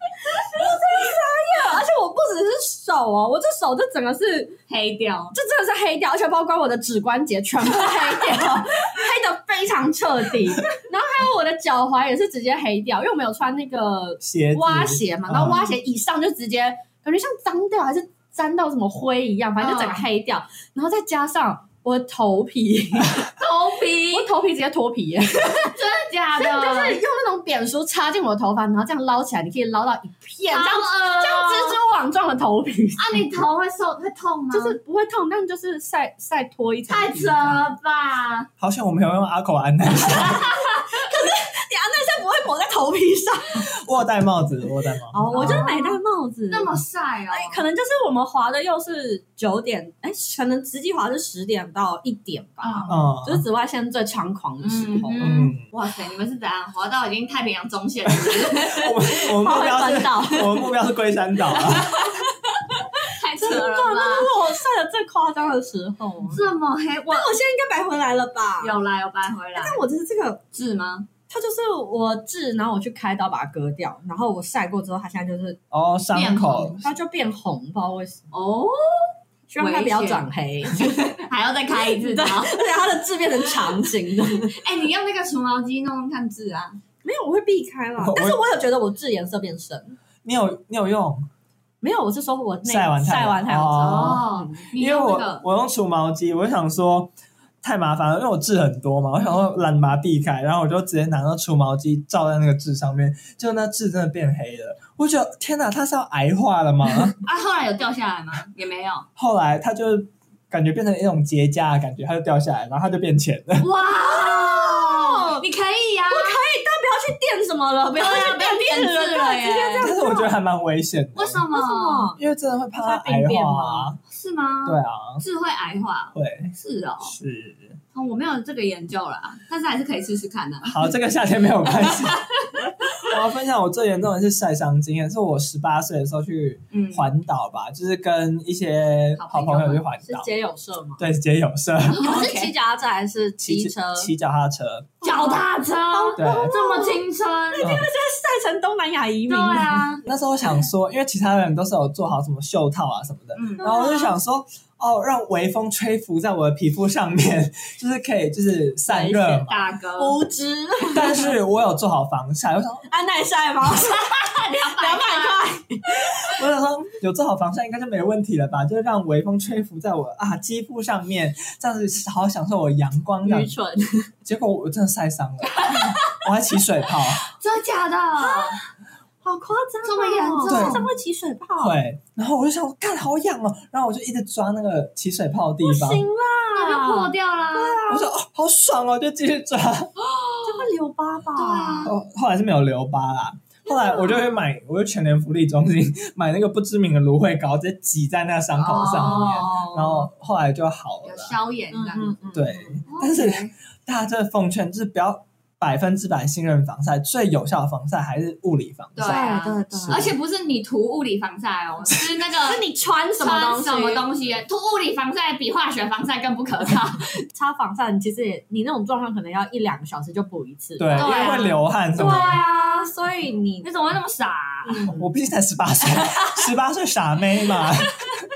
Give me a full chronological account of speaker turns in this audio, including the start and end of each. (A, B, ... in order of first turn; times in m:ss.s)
0:00.3-0:04.6 A
0:04.7-0:05.4 B
0:05.3-0:23.3 A
0:14.2-0:15.6 C
0:19.6-0:20.0 B
0:23.4-0:24.3 B
0:24.1-0:25.8 A
0:25.6-0:27.0 B
0:26.4-0:33.3 A
0:30.5-0:31.8 B
0:33.0-0:34.8 B
0:34.5-0:37.7 A
0:36.9-0:38.5 B
0:38.6-0:40.5 C
0:40.1-0:41.0 B
0:40.9-0:43.7 A
0:43.6-0:45.7 C
0:45.1-0:55.4 A
0:45.3-0:46.0 B
0:46.5-0:47.6 B
0:52.6-0:53.0 B
0:52.9-0:53.5 C
0:54.6-0:58.9 B
0:55.2-0:55.6 C
0:58.2-1:02.0 C
0:59.3-1:00.7 A
1:01.6-1:04.3 B
1:03.4-1:06.4 A
1:06.3-1:07.3 B
1:07.1-1:08.8 A
1:08.6-1:09.8 B
1:09.6-1:10.4 A
1:10.5-1:11.1 B
1:11.3-1:15.6 A
1:15.7-1:16.8 C
1:16.1-1:16.8 B
1:16.8-1:18.2 A
1:18.3-1:22.7 B
1:19.5-1:21.2 A
1:21.7-1:24.6 A
1:24.5-1:26.8 B
1:27.0-1:30.0 A
1:28.0-1:28.4 C
1:30.2-1:31.3 C
1:31.8-1:34.6 A
1:32.6-1:47.2 C
1:33.8-1:35.4 B
1:47.2-1:49.1 B
1:49.2-1:53.7 C
1:53.6-1:56.4 B
1:54.0-1:55.5 A
1:56.1-2:00.3 A
1:58.0-1:59.9 B
1:59.8-2:01.4 C
2:01.2-2:02.1 B
2:01.5-2:02.2 A
2:02.2-2:04.0 C
2:02.7-2:03.9 A
2:04.1-2:07.2 B
2:04.6-2:05.2 C
2:06.2-2:07.8 C
2:07.9-2:10.9 B
2:10.6-2:12.2 C
2:11.8-2:12.6 B
2:13.0-2:20.3 C
2:16.7-2:17.1 B
2:19.2-2:19.8 B
2:20.0-2:21.0 A
2:21.0-2:22.1 C
2:21.9-2:22.5 B
2:22.0-2:24.1 A
2:23.4-2:24.9 C
2:25.0-2:27.7 B
2:25.0-2:29.9 A
2:26.2-2:26.5 C
2:27.6-2:27.9 C
2:29.3-2:30.0 B
2:30.0-2:39.7 C
2:33.4-2:34.0 B
2:33.6-2:34.1 A
2:38.9-2:41.3 A
2:39.5-2:40.2 B
2:40.9-2:42.9 C
2:42.9-2:46.2 A
2:43.6-2:45.4 B
2:46.1-2:53.5 C
2:53.2-2:54.1 A
2:54.2-2:57.3 C
2:55.5-2:56.2 B
2:57.2-2:58.6 B
2:59.2-3:01.8 A
2:59.8-3:00.9 B
3:00.5-3:00.9 C
3:01.6-3:06.1 C
3:05.6-3:08.1 A
3:06.5-3:07.8 B
3:07.9-3:09.9 C
3:10.0-3:10.6 B
3:10.4-3:11.9 A
3:11.4-3:11.9 B
3:11.8-3:21.4 C
3:18.6-3:20.1 B
3:18.8-3:19.4 A
3:21.0-3:22.2 B
3:21.7-3:22.8 A
3:22.3-3:30.2 C
3:22.9-3:23.5 B
3:29.0-3:32.6 B
3:29.0-3:30.1 A
3:32.4-3:34.0 A
3:33.2-3:37.2 B
3:37.3-3:43.7 A
3:40.8-3:42.4 C
3:40.9-3:42.9 B
3:43.6-3:44.9 B
3:44.6-3:45.0 A
3:44.9-3:48.0 C
3:45.9-3:46.4 B